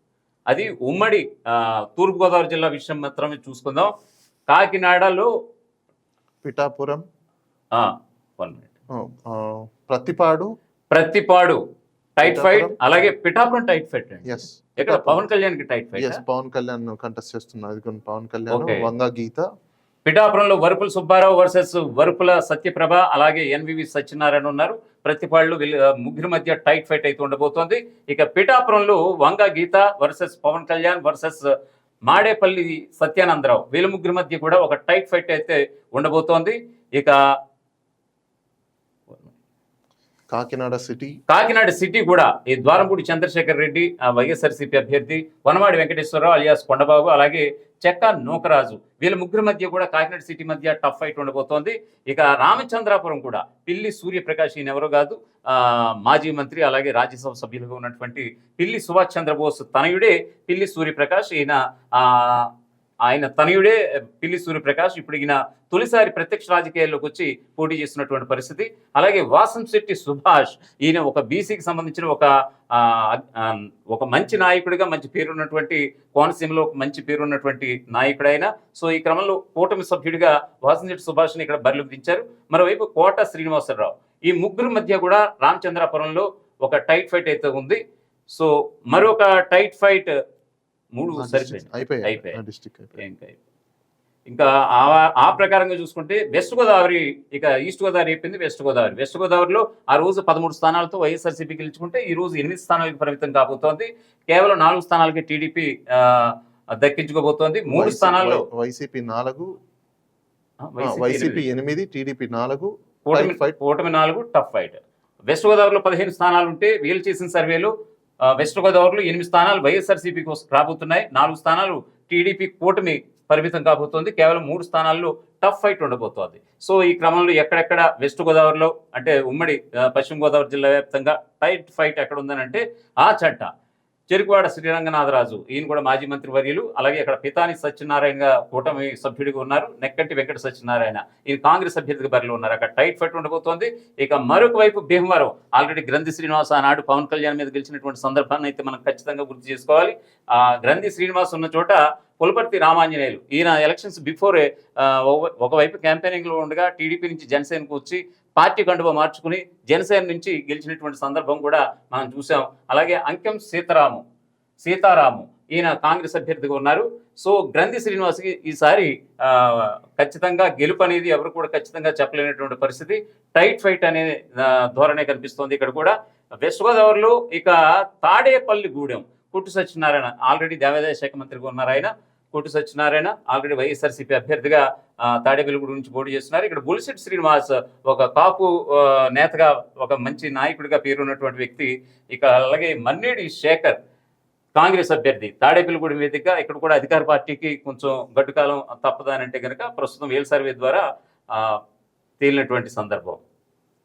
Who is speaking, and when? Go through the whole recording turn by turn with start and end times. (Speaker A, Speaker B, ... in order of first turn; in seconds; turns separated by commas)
Speaker A: 0.5-3.9, Speaker A: 4.5-5.3, Speaker B: 6.4-7.0, Speaker A: 7.7-8.7, Speaker B: 8.9-10.5, Speaker A: 10.9-11.6, Speaker A: 12.2-16.2, Speaker B: 12.2-12.8, Speaker B: 14.2-15.2, Speaker B: 16.0-19.4, Speaker A: 18.5-18.9, Speaker A: 20.1-31.5, Speaker A: 32.1-37.1, Speaker B: 40.3-41.1, Speaker A: 41.3-62.5, Speaker A: 63.0-87.8, Speaker A: 88.3-90.1, Speaker A: 90.9-92.4, Speaker B: 91.2-93.0, Speaker A: 93.0-93.4, Speaker A: 94.3-108.4, Speaker B: 107.7-109.5, Speaker A: 110.6-111.4, Speaker B: 110.8-113.6, Speaker A: 113.1-117.7, Speaker A: 118.2-133.5, Speaker A: 134.1-164.0, Speaker A: 164.6-193.8, Speaker A: 194.5-201.6, Speaker A: 202.2-203.2